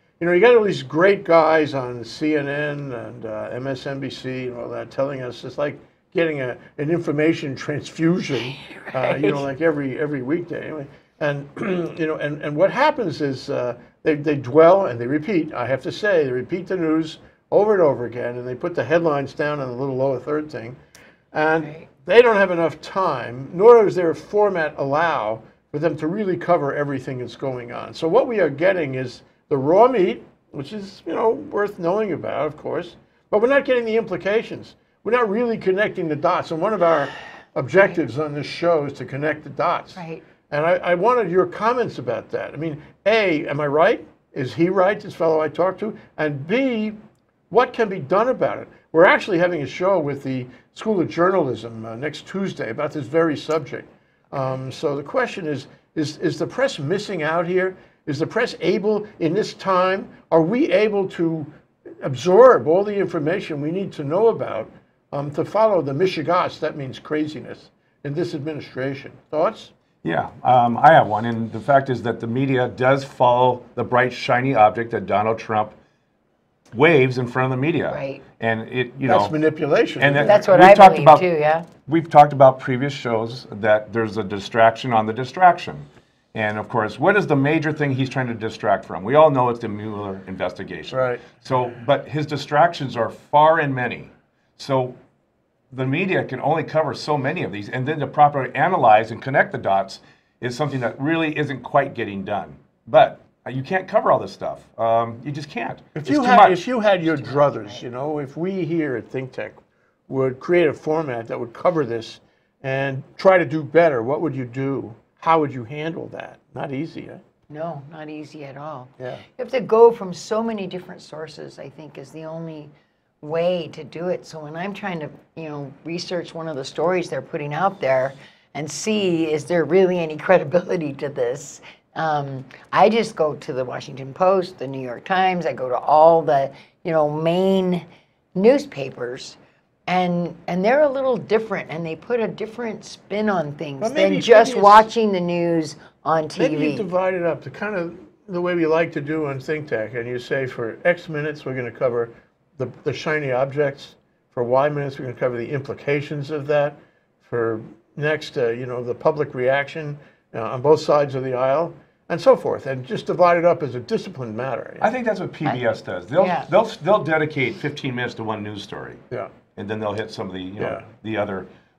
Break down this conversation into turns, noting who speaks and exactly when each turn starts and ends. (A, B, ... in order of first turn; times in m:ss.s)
0:00.2-0:20.8 A
0:08.6-0:09.5 B
0:21.3-0:47.0 A
0:40.0-0:40.2 B
0:47.5-1:09.7 A
1:10.0-1:15.8 C
1:16.7-1:19.4 C
1:17.9-1:18.2 B
1:19.1-1:20.4 A
1:20.0-1:35.0 C
1:20.2-1:21.7 B
1:30.9-1:31.2 A
1:35.7-1:46.6 C
1:46.0-1:57.2 A
1:47.0-1:47.8 B
1:57.5-2:19.4 B
2:19.9-2:26.9 B
2:23.8-2:24.9 A
2:26.4-2:44.9 A
2:44.8-2:49.0 C
2:46.2-2:46.5 B
2:49.6-2:51.5 C